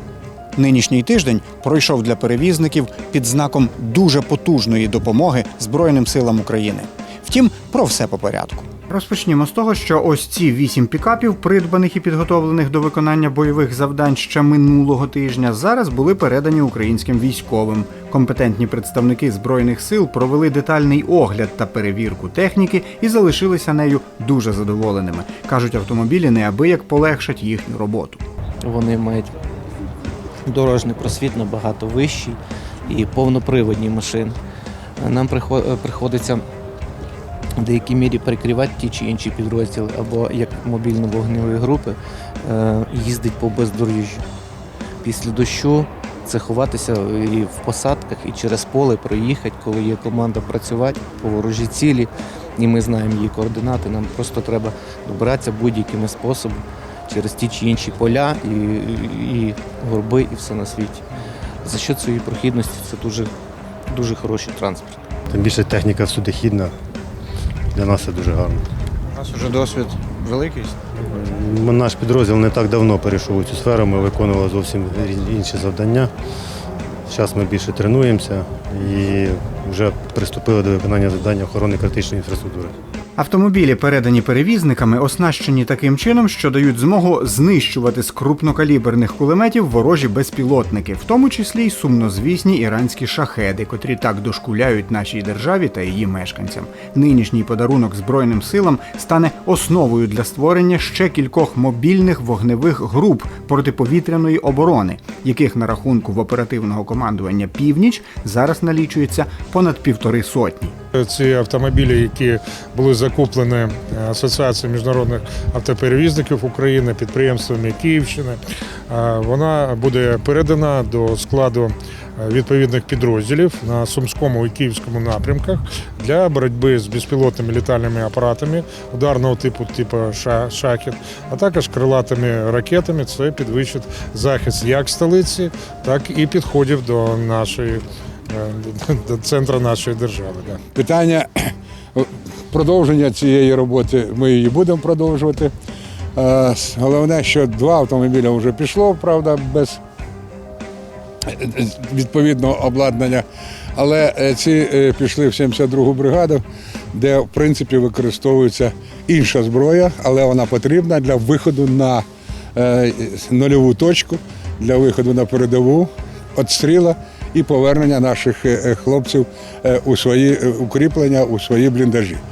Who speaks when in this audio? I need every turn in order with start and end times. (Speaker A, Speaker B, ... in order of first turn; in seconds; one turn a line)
Speaker A: 0.6-28.2
Speaker B: 28.6-29.3
Speaker B: 30.5-34.4
Speaker B: 35.0-36.4
Speaker B: 37.6-44.2
Speaker B: 45.0-61.0
Speaker B: 61.6-63.3
Speaker B: 63.9-65.0
Speaker C: 65.3-66.7
Speaker C: 67.7-68.7
Speaker A: 69.2-70.9
Speaker C: 71.1-76.1
Speaker C: 77.1-82.8
Speaker A: 83.2-110.8
Speaker D: 111.0-140.6
Speaker E: 140.8-145.5
Speaker E: 146.2-149.8
Speaker E: 151.3-153.2
Speaker E: 153.8-162.0
Speaker E: 162.6-172.2